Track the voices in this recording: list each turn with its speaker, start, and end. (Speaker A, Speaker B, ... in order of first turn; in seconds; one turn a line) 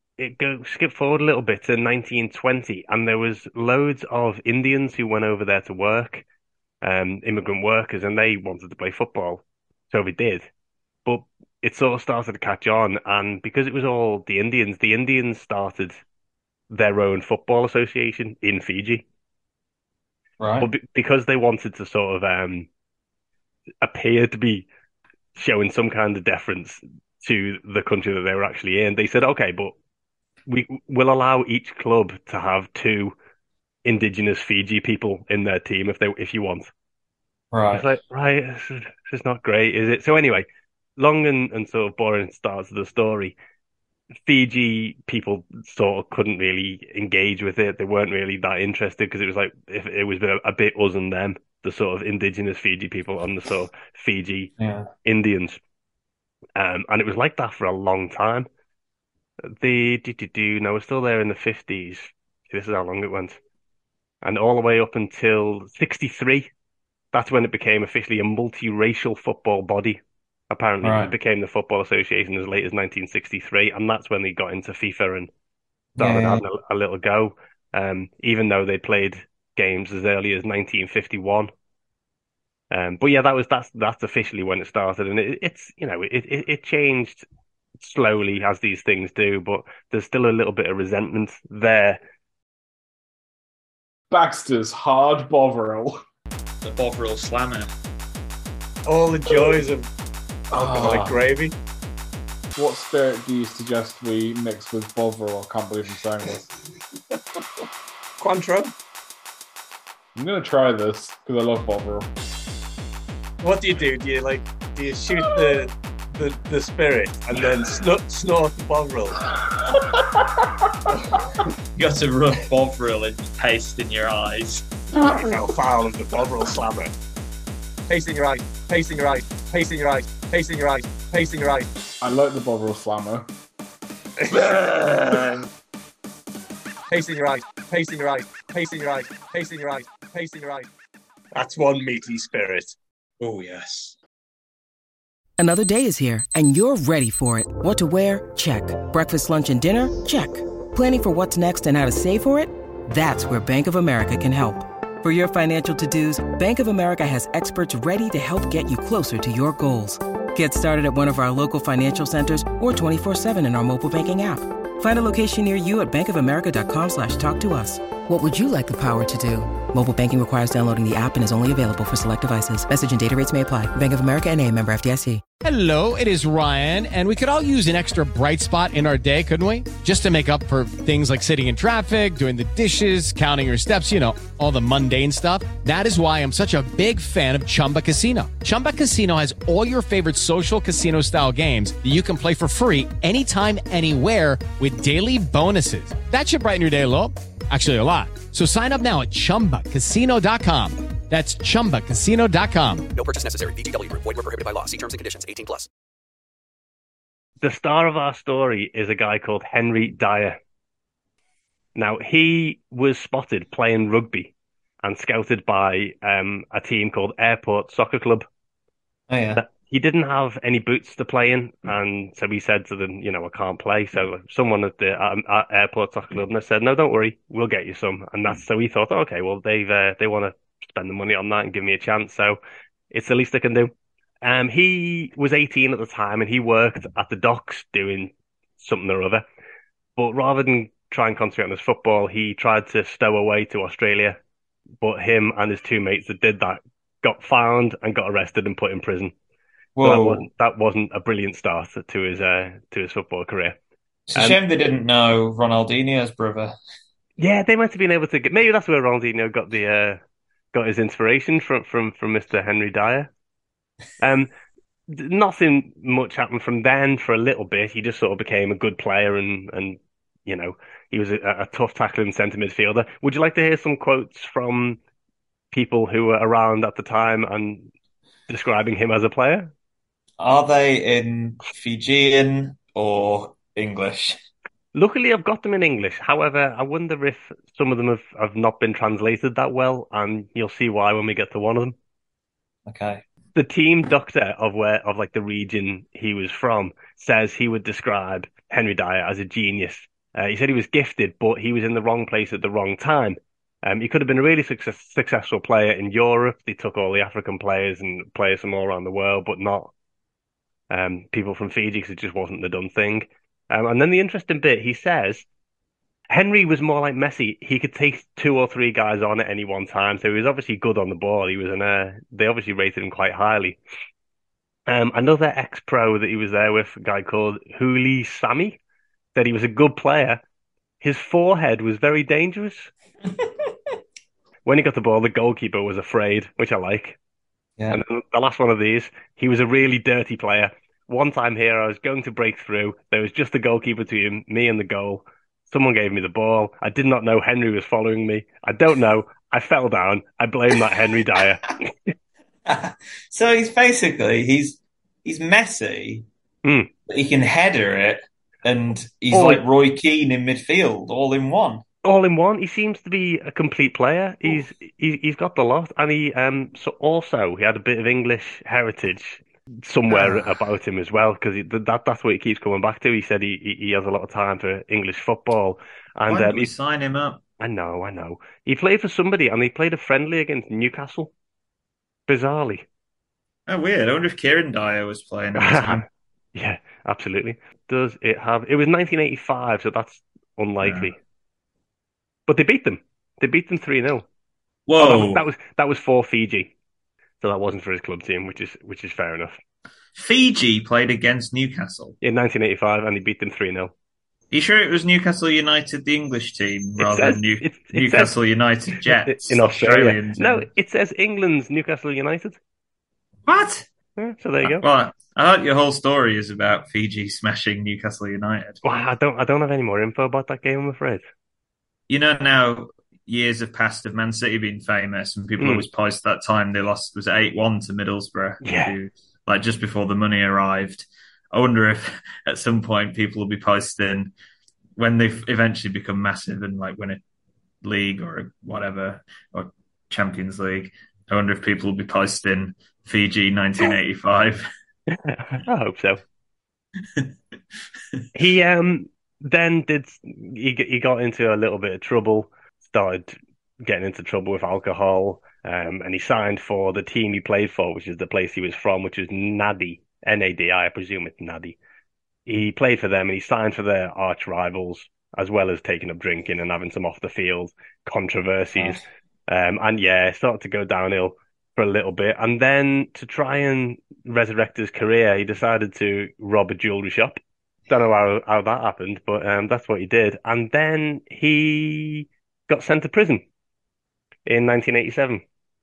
Speaker A: 0.2-6.2
Speaker A: 6.8-10.5
Speaker A: 11.1-16.0
Speaker A: 16.7-19.0
Speaker B: 20.4-20.7
Speaker A: 20.6-22.7
Speaker A: 23.8-24.7
Speaker A: 25.4-29.7
Speaker A: 30.5-33.1
Speaker A: 33.8-36.7
Speaker B: 37.5-37.9
Speaker A: 37.7-40.5
Speaker A: 41.0-43.3
Speaker A: 44.2-54.5
Speaker B: 54.6-54.9
Speaker A: 55.0-55.6
Speaker A: 56.6-58.5
Speaker A: 59.5-63.4
Speaker A: 64.2-66.5
Speaker A: 67.1-75.3
Speaker B: 70.8-71.1
Speaker B: 76.0-76.4
Speaker A: 76.0-81.5
Speaker A: 82.7-87.2
Speaker A: 87.8-92.0
Speaker C: 94.1-96.0
Speaker B: 96.6-97.7
Speaker D: 98.9-99.9
Speaker C: 100.5-101.2
Speaker D: 100.5-101.5
Speaker C: 102.5-106.5
Speaker D: 108.2-108.7
Speaker C: 110.2-112.1
Speaker D: 113.4-119.2
Speaker B: 121.8-124.6
Speaker D: 125.0-126.9
Speaker D: 127.9-131.7
Speaker C: 132.0-133.3
Speaker D: 134.2-134.8
Speaker B: 134.3-135.4
Speaker D: 136.9-140.7
Speaker D: 141.3-142.8
Speaker B: 143.2-144.0
Speaker E: 145.4-175.2
Speaker F: 175.4-202.9
Speaker G: 202.9-205.7
Speaker A: 207.4-210.4
Speaker A: 211.8-214.3
Speaker A: 214.8-218.3
Speaker B: 219.1-219.4
Speaker A: 219.3-232.4
Speaker A: 232.9-233.7
Speaker A: 234.2-239.2
Speaker A: 240.0-244.2
Speaker A: 244.8-249.1
Speaker B: 249.8-250.2
Speaker A: 249.8-253.6
Speaker B: 254.1-256.6
Speaker A: 257.2-260.0
Speaker A: 260.5-263.1
Speaker A: 264.0-264.3
Speaker A: 264.9-274.8
Speaker A: 275.5-277.7
Speaker A: 278.3-279.5
Speaker B: 280.2-284.2
Speaker A: 284.7-291.8
Speaker B: 292.7-293.0
Speaker A: 293.3-309.7
Speaker A: 310.7-315.2
Speaker A: 316.1-323.6
Speaker A: 324.7-328.6
Speaker A: 329.1-330.2
Speaker A: 330.8-332.7
Speaker A: 334.4-337.0
Speaker A: 337.7-351.9
Speaker B: 352.4-356.1
Speaker A: 356.4-356.7
Speaker B: 356.9-361.6
Speaker A: 359.1-359.4
Speaker A: 361.8-376.5
Speaker B: 369.9-370.3
Speaker B: 376.1-377.2
Speaker A: 377.4-381.1
Speaker A: 382.1-382.6
Speaker B: 383.5-385.9
Speaker A: 385.4-391.0
Speaker B: 390.6-390.9
Speaker A: 392.3-394.1
Speaker B: 394.7-395.2
Speaker A: 394.8-396.5
Speaker A: 397.2-399.4
Speaker B: 399.9-401.9
Speaker A: 402.0-403.7
Speaker B: 404.3-410.5
Speaker A: 406.8-408.1
Speaker A: 408.9-412.4
Speaker B: 413.2-413.7
Speaker A: 414.0-414.6
Speaker B: 414.4-418.6
Speaker A: 418.6-421.0
Speaker B: 421.9-434.1
Speaker A: 425.4-425.6
Speaker A: 428.4-428.8
Speaker B: 434.8-437.0
Speaker B: 437.6-444.5
Speaker A: 444.9-446.0
Speaker A: 448.1-461.6
Speaker A: 462.3-483.2
Speaker B: 468.6-468.8
Speaker A: 484.2-485.2